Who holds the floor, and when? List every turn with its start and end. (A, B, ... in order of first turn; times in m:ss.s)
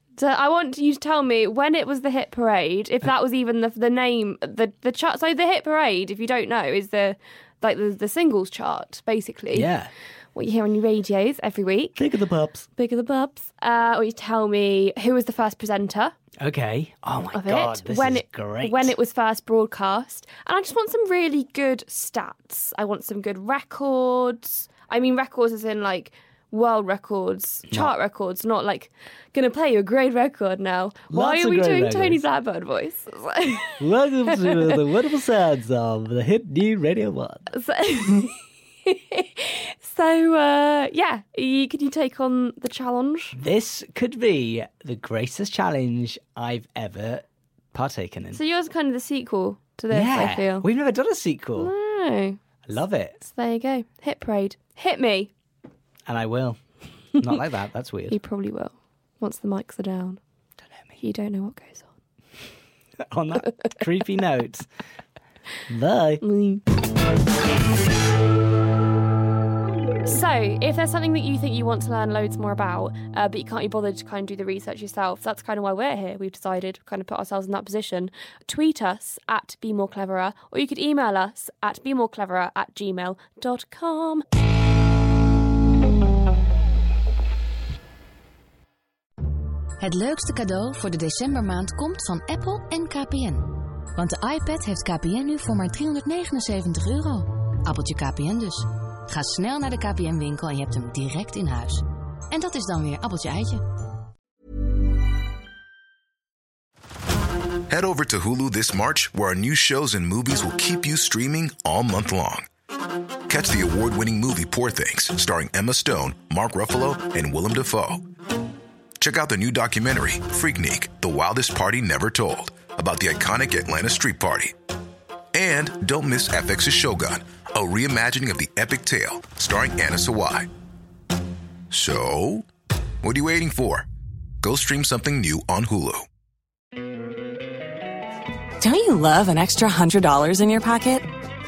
0:00.2-0:09.7 A
0:09.5-0:09.9 B
0:10.3-0:12.1 A
0:12.0-0:12.7 B
0:12.7-0:16.1 A
0:16.4-0:19.0 B
0:17.3-0:34.7 A
0:27.7-0:27.9 B
0:31.1-0:32.2 B
0:33.8-0:37.5 B
0:37.5-0:43.4 A
0:43.4-0:48.4 B
0:48.3-0:50.7 A
0:49.9-0:51.7 B
0:51.6-0:52.4 A
0:52.6-0:53.2 B
0:53.2-0:55.3 A
0:56.1-0:56.6 B
0:57.1-0:58.2 B
0:58.1-1:00.2 A
1:01.0-1:01.9 A
1:03.0-1:04.7 B
1:05.7-1:06.2 B
1:06.2-1:06.6 A
1:10.0-1:24.2 A
1:29.8-1:43.6 C
1:47.7-1:52.5 D
1:53.3-1:58.0 D
1:59.0-2:04.5 D
2:05.3-2:10.5 D
2:11.7-2:12.5 D
2:13.0-2:13.9 D
2:14.4-2:16.0 D
2:18.6-2:21.1 E